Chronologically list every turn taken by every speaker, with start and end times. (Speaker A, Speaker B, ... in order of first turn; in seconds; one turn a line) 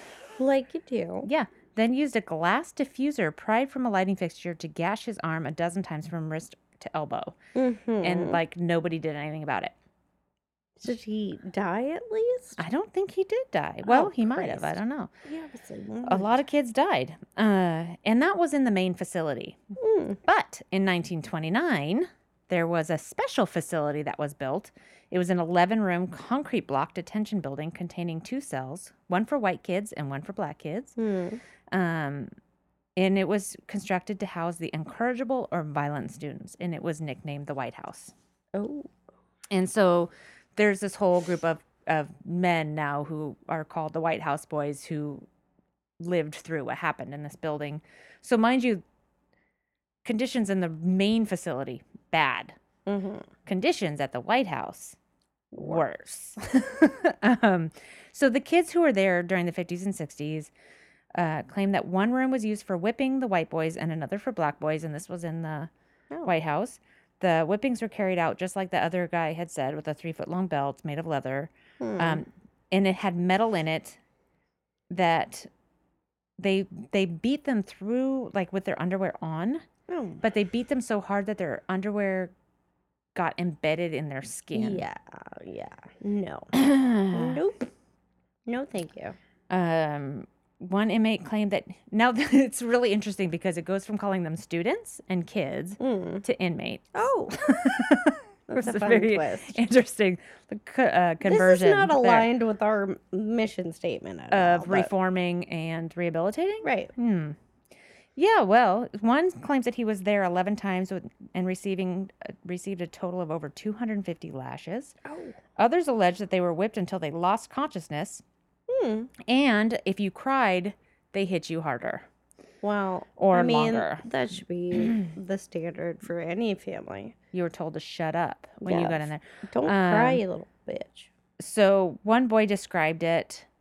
Speaker A: 0.3-1.3
Speaker B: 1.2-7.4
Speaker A: 7.5-8.4
Speaker B: 8.0-9.7
Speaker A: 10.8-12.6
Speaker B: 12.6-15.1
Speaker A: 13.9-16.4
Speaker B: 16.1-19.6
Speaker A: 19.8-20.2
Speaker B: 20.2-31.0
Speaker A: 31.0-31.4
Speaker B: 31.7-32.3
Speaker B: 33.0-38.1
Speaker A: 38.5-38.9
Speaker B: 39.5-45.3
Speaker B: 46.0-48.8
Speaker B: 50.0-52.6
Speaker A: 52.9-53.3
Speaker B: 53.5-55.0
Speaker A: 55.5-55.9
Speaker B: 55.6-60.5
Speaker B: 61.1-65.7
Speaker B: 66.2-74.0
Speaker A: 71.8-72.2
Speaker B: 74.9-75.5
Speaker B: 76.4-79.6
Speaker A: 79.9-80.2
Speaker B: 80.2-82.3
Speaker B: 83.1-84.9
Speaker A: 84.5-86.5
Speaker B: 86.5-87.4
Speaker A: 87.1-87.7
Speaker A: 88.5-89.2
Speaker B: 89.5-102.3
Speaker A: 95.8-96.2
Speaker A: 96.9-97.5
Speaker A: 98.5-99.6
Speaker A: 101.2-104.9
Speaker B: 104.3-107.4
Speaker A: 106.6-106.9
Speaker B: 108.2-115.0
Speaker A: 115.0-115.4
Speaker B: 115.5-118.2
Speaker A: 118.7-119.1
Speaker B: 119.2-122.1
Speaker A: 122.6-127.1
Speaker B: 123.2-124.0
Speaker B: 124.8-125.1
Speaker B: 127.3-130.2
Speaker A: 128.6-131.1
Speaker B: 131.4-133.5